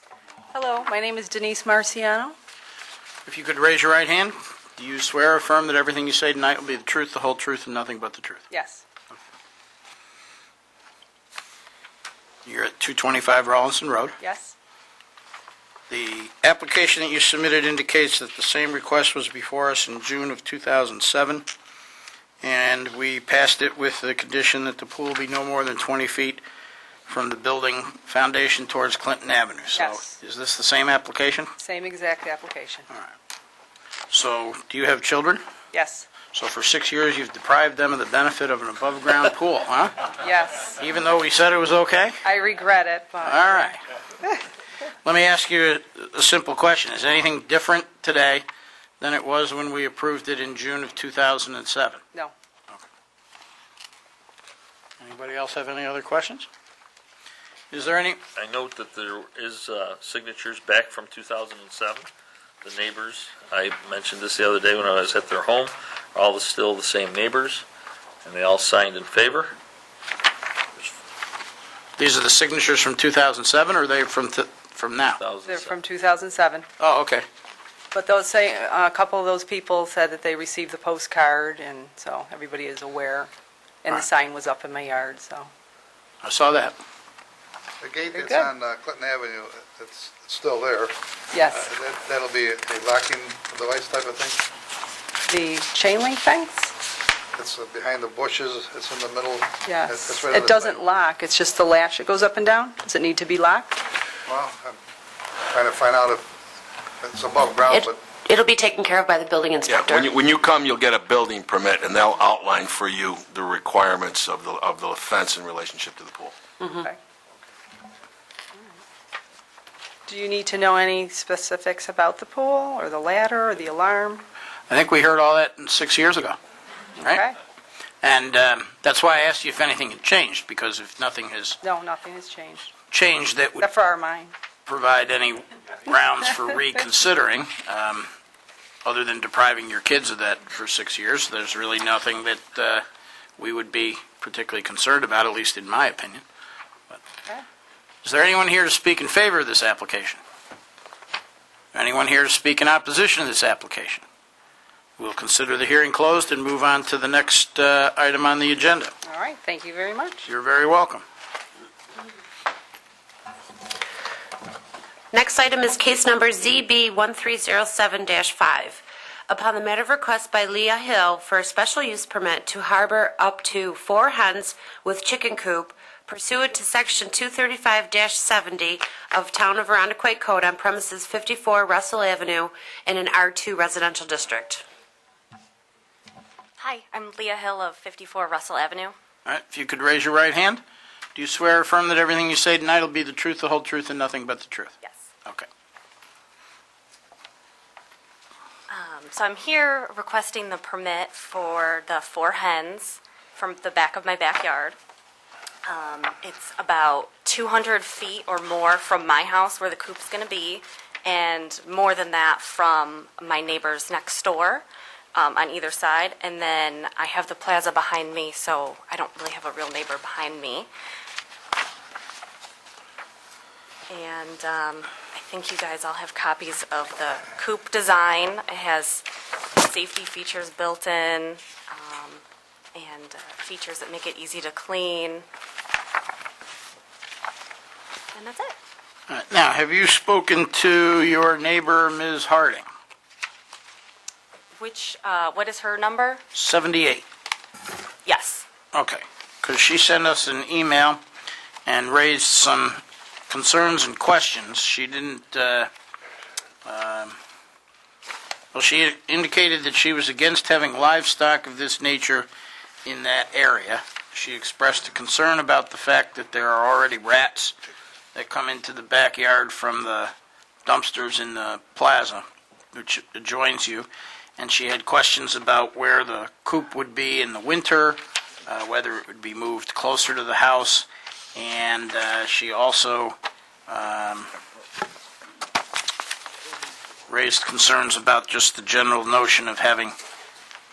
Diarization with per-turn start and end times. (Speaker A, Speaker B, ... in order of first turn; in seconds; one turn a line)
Speaker A: 0.5-2.4
Speaker B: 3.3-8.4
Speaker A: 8.5-8.8
Speaker B: 12.5-14.2
Speaker A: 14.2-14.5
Speaker B: 15.9-21.5
Speaker B: 22.4-26.4
Speaker B: 27.1-31.5
Speaker A: 29.7-30.1
Speaker A: 31.6-32.9
Speaker B: 34.1-35.4
Speaker A: 35.7-36.1
Speaker B: 36.3-40.1
Speaker A: 40.2-40.7
Speaker B: 40.7-42.2
Speaker A: 42.2-43.7
Speaker B: 43.2-43.8
Speaker B: 45.0-48.5
Speaker B: 49.0-52.0
Speaker B: 55.0-56.5
Speaker B: 57.7-58.2
Speaker C: 58.4-62.1
Speaker C: 62.6-67.7
Speaker C: 68.2-69.6
Speaker B: 72.0-75.2
Speaker C: 75.1-75.8
Speaker A: 75.5-76.7
Speaker B: 76.8-77.3
Speaker A: 77.9-83.3
Speaker A: 83.8-85.5
Speaker B: 86.2-86.8
Speaker D: 87.8-91.0
Speaker A: 88.1-88.5
Speaker A: 91.3-91.7
Speaker D: 91.5-94.4
Speaker A: 95.3-96.7
Speaker D: 97.3-100.8
Speaker A: 99.7-103.8
Speaker D: 104.3-104.8
Speaker D: 105.5-106.3
Speaker D: 107.0-108.0
Speaker E: 107.7-110.1
Speaker F: 109.7-116.4
Speaker A: 120.1-124.2
Speaker B: 124.7-126.4
Speaker A: 127.0-127.3
Speaker B: 128.0-131.6
Speaker A: 131.6-132.7
Speaker B: 132.9-133.7
Speaker A: 133.6-134.3
Speaker B: 134.7-138.1
Speaker B: 138.8-142.8
Speaker B: 143.4-146.2
Speaker B: 148.0-150.2
Speaker B: 151.7-154.1
Speaker B: 155.0-158.9
Speaker A: 159.0-160.2
Speaker B: 160.2-161.0
Speaker E: 165.1-184.6
Speaker G: 186.6-188.9
Speaker B: 189.3-190.6
Speaker B: 191.2-194.8
Speaker G: 198.7-204.8
Speaker G: 205.7-220.7
Speaker G: 223.9-232.2
Speaker G: 232.8-235.3
Speaker G: 238.2-238.5
Speaker B: 239.1-242.7
Speaker G: 244.6-246.2
Speaker B: 246.3-247.1
Speaker G: 248.1-248.4
Speaker B: 248.7-251.0
Speaker B: 251.7-255.7
Speaker B: 256.6-257.2
Speaker B: 258.5-262.3
Speaker B: 262.9-267.6
Speaker B: 268.1-270.1
Speaker B: 270.7-283.2
Speaker B: 283.7-284.3
Speaker B: 287.1-289.9